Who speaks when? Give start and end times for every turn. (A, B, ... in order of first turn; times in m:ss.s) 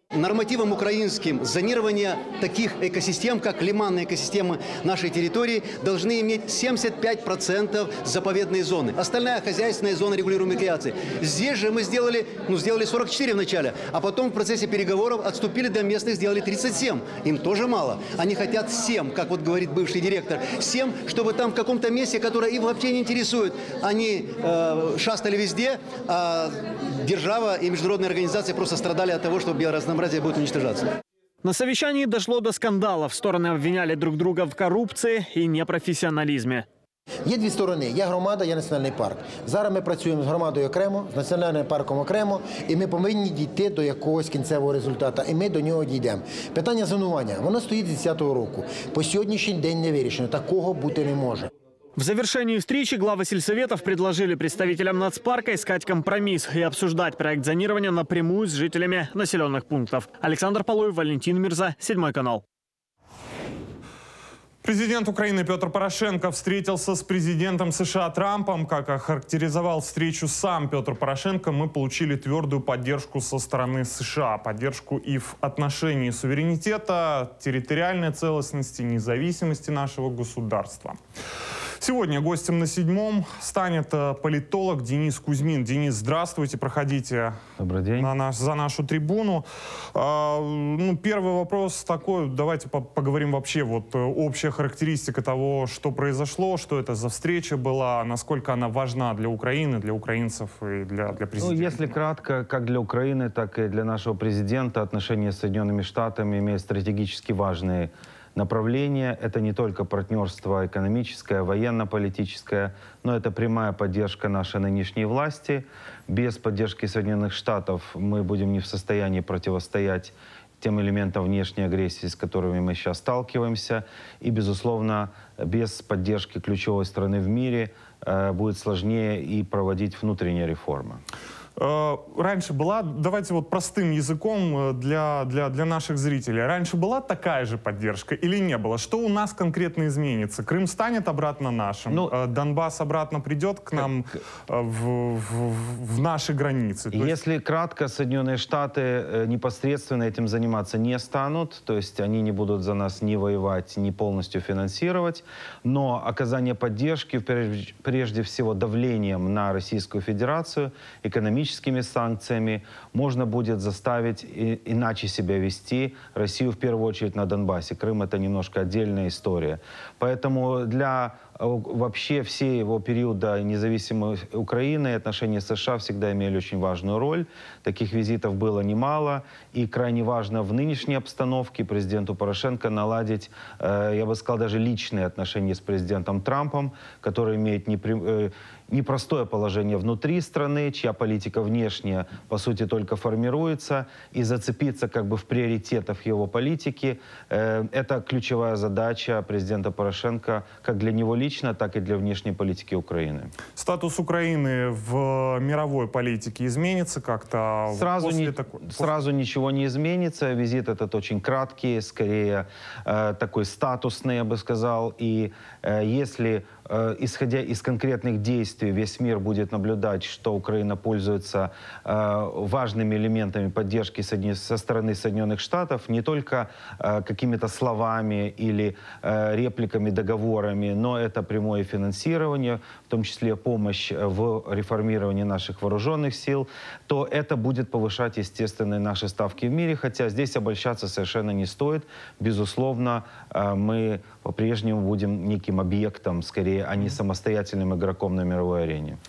0:00.1-0:30.9 A
0:31.4-0:36.6 B
0:37.2-0:51.5 C
0:52.0-1:02.4 B
1:04.6-1:21.0 D
1:21.8-1:27.4 D
1:27.6-1:28.1 E
1:28.0-1:41.9 D
1:41.4-2:11.0 E
2:11.6-2:27.2 D
2:21.9-2:22.1 E
2:26.9-3:23.3 E
3:23.6-3:28.9 D
3:27.7-4:09.0 E